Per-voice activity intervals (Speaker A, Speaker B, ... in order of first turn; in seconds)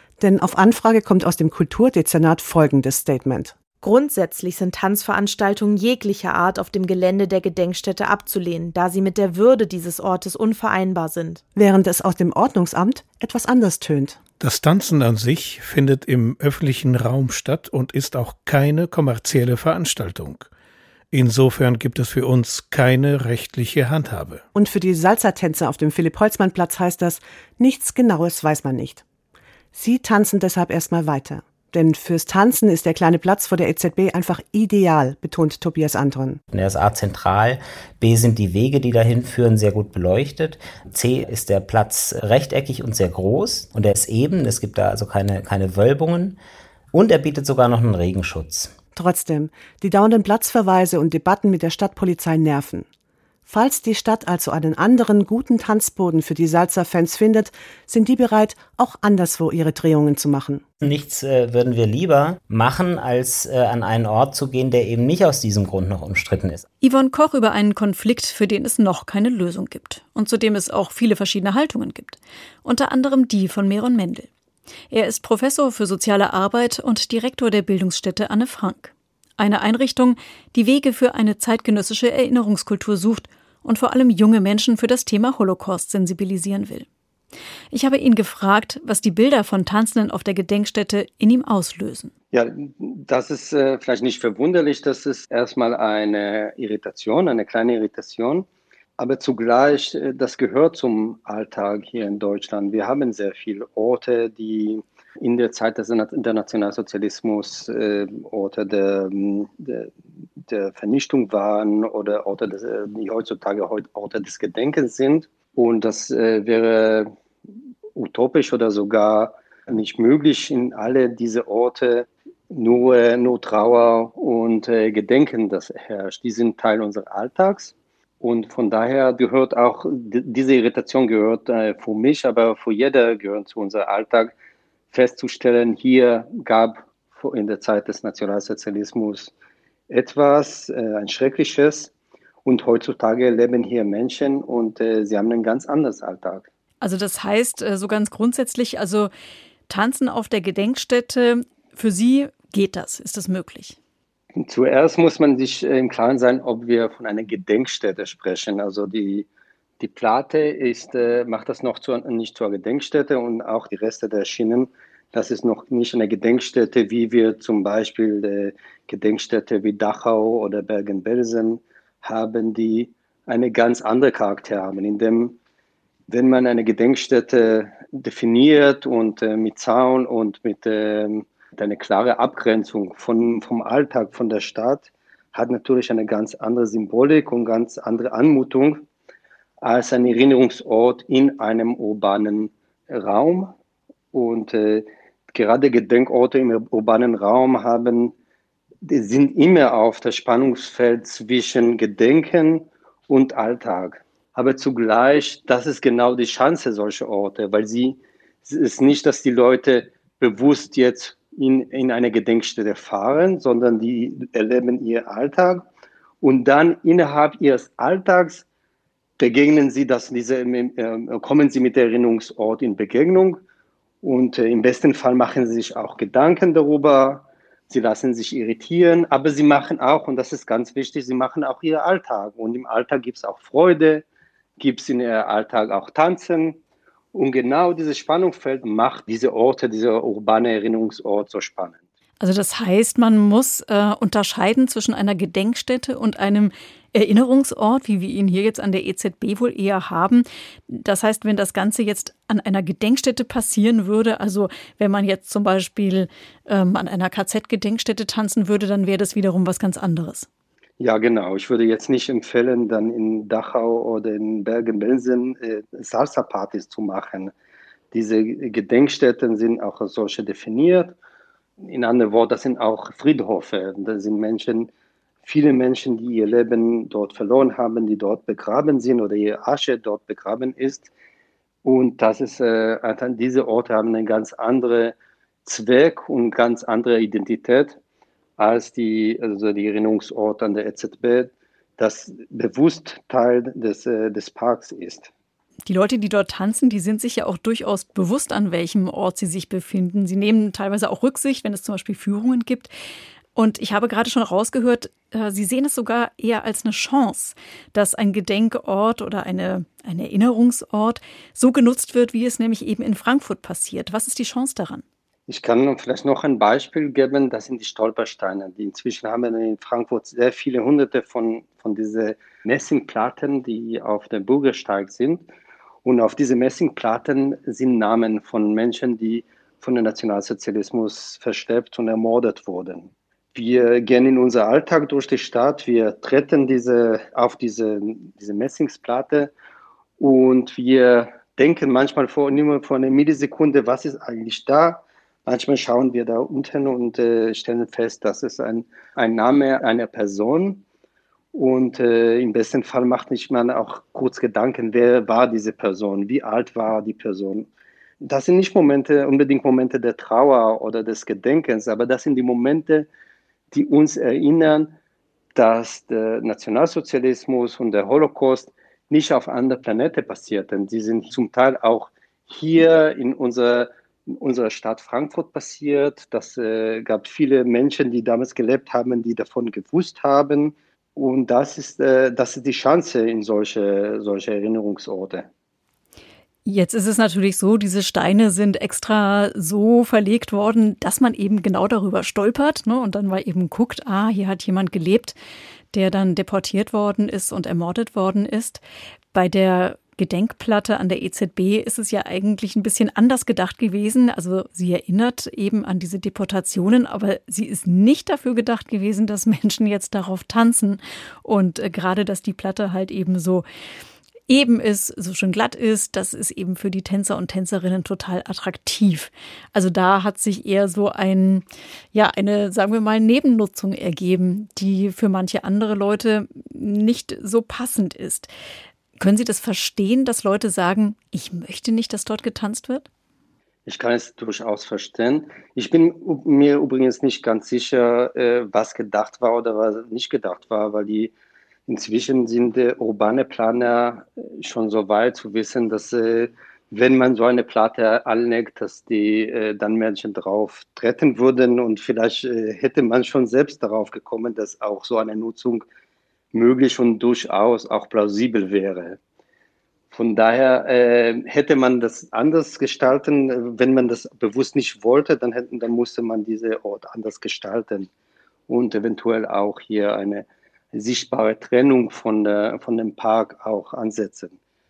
Speaker A: 0.2-3.6, 11.6-14.2, 24.6-29.0, 29.7-36.4, 49.0-52.9, 53.5-60.6
Speaker B: 3.8-11.4
Speaker C: 14.4-20.5, 21.1-24.4
Speaker D: 36.5-46.4, 46.9-48.7, 60.8-66.7
Speaker E: 66.8-74.3, 74.9-86.9, 87.7-92.1, 146.8-149.1, 149.7-153.8, 242.2-260.3, 295.7-302.7, 303.4-314.8, 386.5-395.2, 395.7-413.4, 414.3-428.3, 429.0-432.9
Speaker F: 92.3-98.5, 99.0-109.9, 110.5-117.1, 118.0-134.3, 134.9-139.3, 139.9-141.9, 142.4-146.5, 154.4-159.3, 159.8-175.4, 176.1-188.8, 189.6-193.5, 194.1-198.1, 198.8-215.7, 216.2-218.4, 219.2-223.4, 224.0-234.0, 234.6-236.6, 237.1-241.8, 260.8-267.3, 267.9-270.9, 271.6-274.7, 275.2-280.9, 281.6-287.8, 288.4-295.1, 315.3-325.3, 325.8-339.3, 340.0-350.6, 351.3-357.5, 358.0-362.9, 363.5-364.8, 365.4-385.3, 433.7-441.1, 441.7-455.7, 456.3-459.0, 459.9-467.9, 468.5-474.4